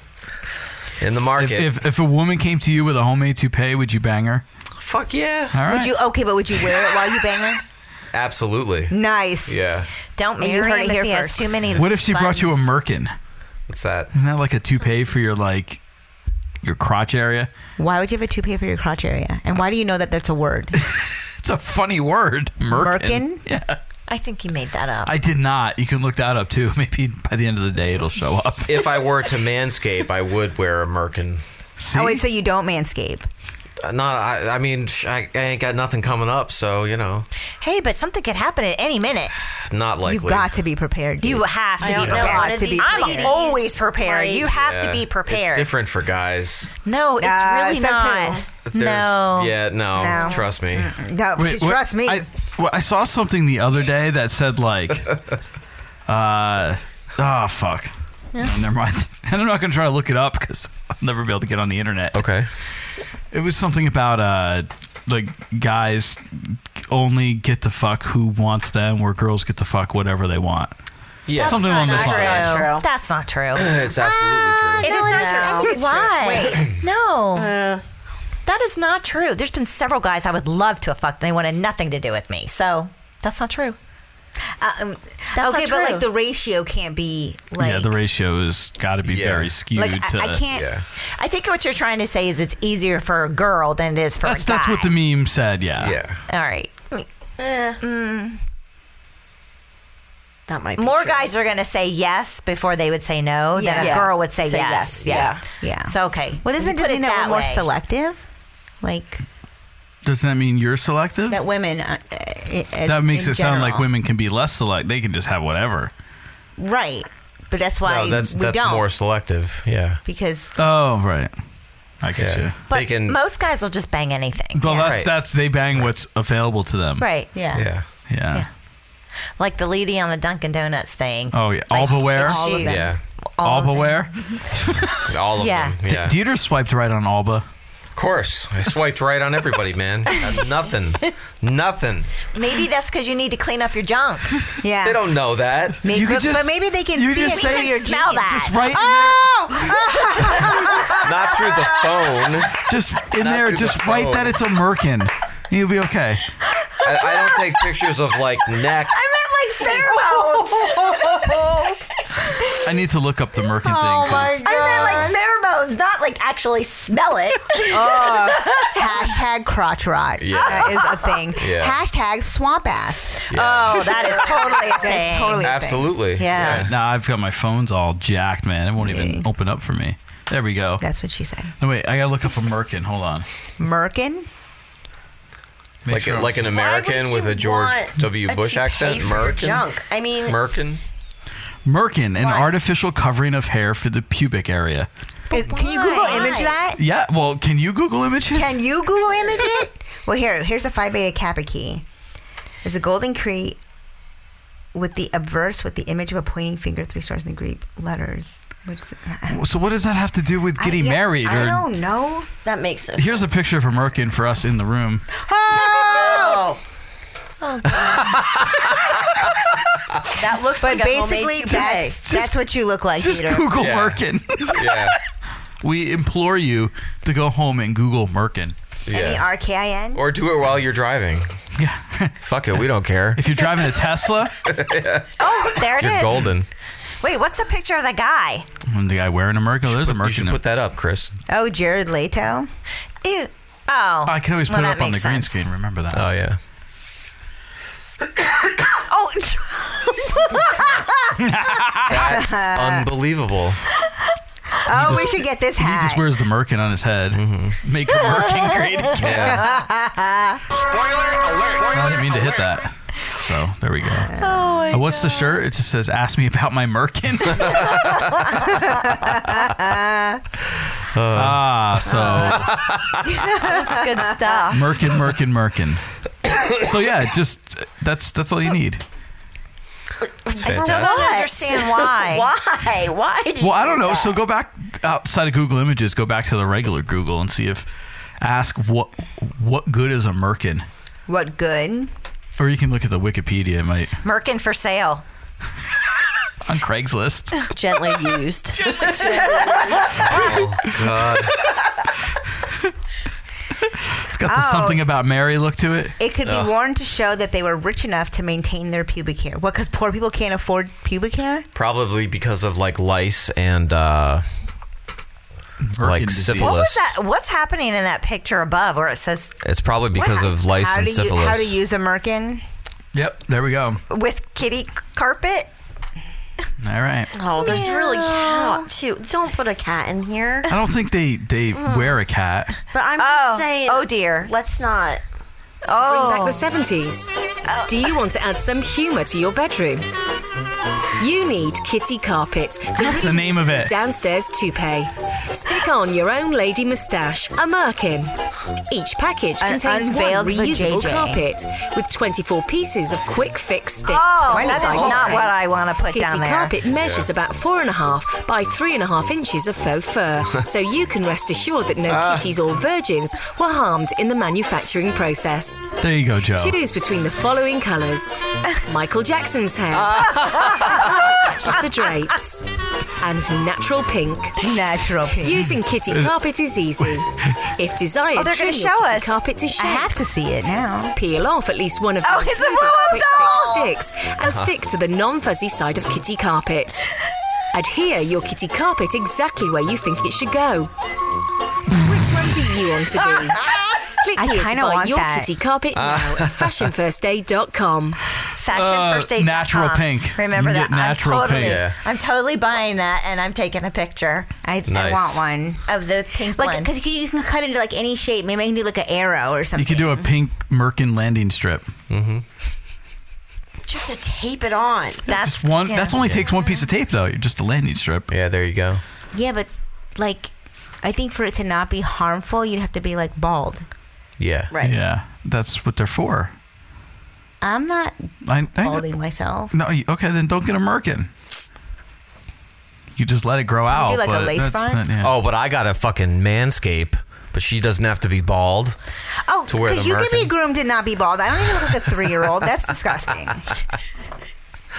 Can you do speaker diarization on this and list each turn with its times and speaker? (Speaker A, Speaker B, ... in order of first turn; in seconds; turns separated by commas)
Speaker A: 1.0-1.7, Speaker B: 1.4-4.4, Speaker A: 4.8-5.5, Speaker B: 5.5-6.0, Speaker C: 5.7-7.6, Speaker A: 8.1-8.9, Speaker C: 8.9-9.6, Speaker A: 9.5-9.9, Speaker D: 10.2-12.7, Speaker C: 10.4-11.5, Speaker B: 11.8-13.1, Speaker A: 13.7-14.1, Speaker B: 14.1-15.8, Speaker B: 16.6-17.5, Speaker C: 17.8-20.8, Speaker B: 20.9-23.8, Speaker C: 22.7-23.4, Speaker D: 24.1-25.1, Speaker B: 25.1-28.8, Speaker A: 28.7-31.4, Speaker B: 31.8-32.2, Speaker C: 31.9-33.3, Speaker A: 33.8-37.3, Speaker D: 37.6-39.3, Speaker A: 39.7-40.5, Speaker C: 40.0-43.3, Speaker D: 41.2-45.7, Speaker E: 41.8-44.5, Speaker A: 44.6-46.7, Speaker D: 46.9-49.6, Speaker C: 47.2-48.4, Speaker A: 48.7-50.9, Speaker C: 50.0-52.2, Speaker B: 51.4-55.1, Speaker B: 56.1-62.2, Speaker A: 62.1-62.5, Speaker B: 63.3-70.7, Speaker A: 71.3-72.3, Speaker E: 71.3-72.9, Speaker B: 71.4-72.6, Speaker D: 71.7-73.8, Speaker A: 73.5-75.0, Speaker E: 74.8-76.1, Speaker D: 74.8-77.5, Speaker C: 75.0-76.7, Speaker E: 77.3-77.8, Speaker D: 78.5-83.8, Speaker C: 84.6-87.9, Speaker D: 85.3-86.1, Speaker B: 87.6-90.4, Speaker A: 89.0-89.5, Speaker C: 89.8-90.7, Speaker A: 90.5-90.8, Speaker D: 91.2-94.9, Speaker B: 94.2-96.0, Speaker A: 95.8-96.2, Speaker D: 96.3-97.1, Speaker E: 97.4-97.8, Speaker D: 97.8-98.4, Speaker E: 100.5-101.3, Speaker D: 100.8-107.7, Speaker C: 103.5-104.1, Speaker E: 103.8-105.5, Speaker C: 105.6-108.2, Speaker C: 108.8-109.2, Speaker B: 110.0-111.4, Speaker C: 111.3-113.9, Speaker B: 112.9-115.9, Speaker C: 116.6-118.9, Speaker A: 117.8-120.0, Speaker C: 120.0-120.5, Speaker B: 120.6-121.3, Speaker B: 122.0-122.6, Speaker A: 122.2-123.2, Speaker D: 122.7-125.0, Speaker B: 124.5-127.1, Speaker A: 124.7-125.1, Speaker D: 127.0-127.3, Speaker C: 127.3-127.7, Speaker A: 127.5-127.8, Speaker B: 128.1-128.4, Speaker D: 129.4-133.9, Speaker B: 131.3-132.5, Speaker C: 132.2-133.0, Speaker A: 132.7-133.0, Speaker B: 133.4-134.9, Speaker A: 135.1-136.2, Speaker D: 135.4-135.8, Speaker B: 135.9-137.4, Speaker A: 138.0-142.1, Speaker D: 142.3-144.3, Speaker C: 144.6-145.1, Speaker A: 144.8-145.8, Speaker C: 145.8-151.1, Speaker B: 145.9-149.3, Speaker D: 147.4-148.7, Speaker A: 151.0-152.5, Speaker B: 152.7-156.2, Speaker A: 153.1-154.4, Speaker A: 156.8-159.0, Speaker D: 158.9-161.1, Speaker C: 160.6-161.7, Speaker B: 162.6-164.4, Speaker C: 163.8-165.2, Speaker D: 163.8-168.3, Speaker C: 167.7-173.2, Speaker A: 170.2-170.7, Speaker D: 170.5-171.1, Speaker A: 171.4-171.8, Speaker D: 173.3-175.5, Speaker A: 173.3-173.8, Speaker C: 174.0-176.0, Speaker A: 175.4-176.7, Speaker D: 176.2-176.7, Speaker B: 176.5-180.8, Speaker C: 178.8-179.3, Speaker C: 180.8-181.5, Speaker B: 181.6-183.3, Speaker C: 183.6-184.3, Speaker B: 185.8-186.6, Speaker A: 185.9-189.7, Speaker E: 186.5-190.4, Speaker A: 190.2-190.8, Speaker B: 191.7-194.9, Speaker E: 192.2-192.5, Speaker C: 195.3-196.8, Speaker D: 195.4-196.6, Speaker E: 196.1-196.4, Speaker B: 196.8-198.5, Speaker C: 198.3-201.8, Speaker C: 202.6-203.6, Speaker C: 204.7-209.4, Speaker B: 209.3-211.6, Speaker C: 210.6-212.3, Speaker E: 212.4-213.3, Speaker B: 213.0-215.1, Speaker C: 215.2-216.4, Speaker E: 215.8-216.6, Speaker E: 220.2-222.0, Speaker C: 220.6-223.5, Speaker B: 222.0-222.3, Speaker B: 223.0-224.9, Speaker A: 223.6-224.0, Speaker A: 224.5-225.0, Speaker B: 225.6-228.6, Speaker A: 228.9-229.3, Speaker C: 228.9-230.0, Speaker A: 229.9-231.3, Speaker B: 231.6-232.2, Speaker A: 232.2-233.2, Speaker B: 233.2-234.3, Speaker A: 234.5-235.1, Speaker D: 235.2-236.3, Speaker A: 235.7-236.5, Speaker D: 237.0-238.5, Speaker B: 238.7-240.4, Speaker A: 239.7-241.2, Speaker C: 241.3-242.5, Speaker D: 243.0-245.4, Speaker B: 244.1-246.1, Speaker A: 245.9-246.4, Speaker C: 248.9-251.2, Speaker B: 251.2-252.0, Speaker A: 251.9-253.6, Speaker C: 251.9-252.9, Speaker C: 254.6-256.1, Speaker B: 254.7-259.4, Speaker A: 257.1-257.6, Speaker A: 259.0-259.5, Speaker C: 259.1-260.4, Speaker B: 261.7-267.6, Speaker C: 264.2-264.5, Speaker D: 264.2-265.2, Speaker A: 267.4-268.1, Speaker C: 268.4-270.2, Speaker A: 270.9-271.6, Speaker B: 271.1-272.5, Speaker C: 271.9-272.3, Speaker A: 272.3-272.8, Speaker C: 273.3-273.9, Speaker D: 273.4-274.6, Speaker B: 274.5-275.8, Speaker B: 276.6-278.8, Speaker E: 280.1-284.2, Speaker D: 280.4-282.3, Speaker A: 280.4-281.1, Speaker B: 283.4-287.7, Speaker B: 288.2-290.7, Speaker C: 291.1-291.9, Speaker B: 292.4-294.0, Speaker D: 294.0-295.0, Speaker B: 296.5-297.4, Speaker E: 297.5-300.3, Speaker A: 299.9-301.3, Speaker B: 304.1-306.0, Speaker C: 304.3-304.9, Speaker C: 306.0-311.5, Speaker A: 306.2-306.5, Speaker A: 311.6-314.2, Speaker B: 315.6-316.6, Speaker A: 315.8-316.9, Speaker D: 316.4-319.3, Speaker A: 319.4-321.6, Speaker C: 320.0-322.4, Speaker B: 322.9-323.8, Speaker D: 323.9-325.5, Speaker B: 326.6-327.1, Speaker E: 327.1-330.5, Speaker D: 327.4-328.7, Speaker B: 330.5-332.5, Speaker E: 331.5-332.0, Speaker E: 332.7-335.0, Speaker D: 333.0-334.3, Speaker E: 335.7-336.4, Speaker D: 335.7-336.5, Speaker F: 335.7-337.1, Speaker E: 337.5-337.9, Speaker F: 337.7-339.9, Speaker F: 341.0-348.1, Speaker B: 342.8-343.7, Speaker F: 348.7-355.3, Speaker C: 349.4-351.3, Speaker D: 353.8-356.6, Speaker C: 354.3-355.3, Speaker F: 355.9-365.7, Speaker A: 356.8-357.1, Speaker A: 361.9-362.3, Speaker B: 365.8-366.6, Speaker F: 366.4-372.4, Speaker A: 369.8-370.7, Speaker D: 370.2-370.8, Speaker F: 373.0-374.3, Speaker C: 374.4-375.6, Speaker F: 375.2-379.9, Speaker B: 375.9-376.1, Speaker D: 378.1-379.9, Speaker C: 379.6-381.0, Speaker F: 380.9-386.8, Speaker D: 382.0-383.8, Speaker A: 384.2-384.5, Speaker F: 387.5-390.7, Speaker F: 391.8-393.4, Speaker F: 394.0-398.0, Speaker C: 394.2-395.3, Speaker A: 395.7-396.7, Speaker D: 398.4-404.3, Speaker B: 398.5-401.6, Speaker A: 401.4-401.8, Speaker C: 404.4-405.6, Speaker A: 404.7-405.2, Speaker D: 405.7-406.7, Speaker C: 406.4-410.1, Speaker B: 409.6-411.7, Speaker A: 411.9-412.2, Speaker E: 413.7-415.1, Speaker B: 415.1-418.1, Speaker D: 415.1-416.4, Speaker A: 418.1-418.8, Speaker C: 419.1-423.7, Speaker A: 424.2-424.5, Speaker E: 424.5-424.8, Speaker B: 424.6-426.3, Speaker C: 427.4-429.5, Speaker B: 428.2-428.9, Speaker B: 429.5-431.1, Speaker B: 433.0-435.1, Speaker C: 433.7-434.9, Speaker A: 435.0-438.8, Speaker C: 439.3-443.5, Speaker A: 439.5-440.3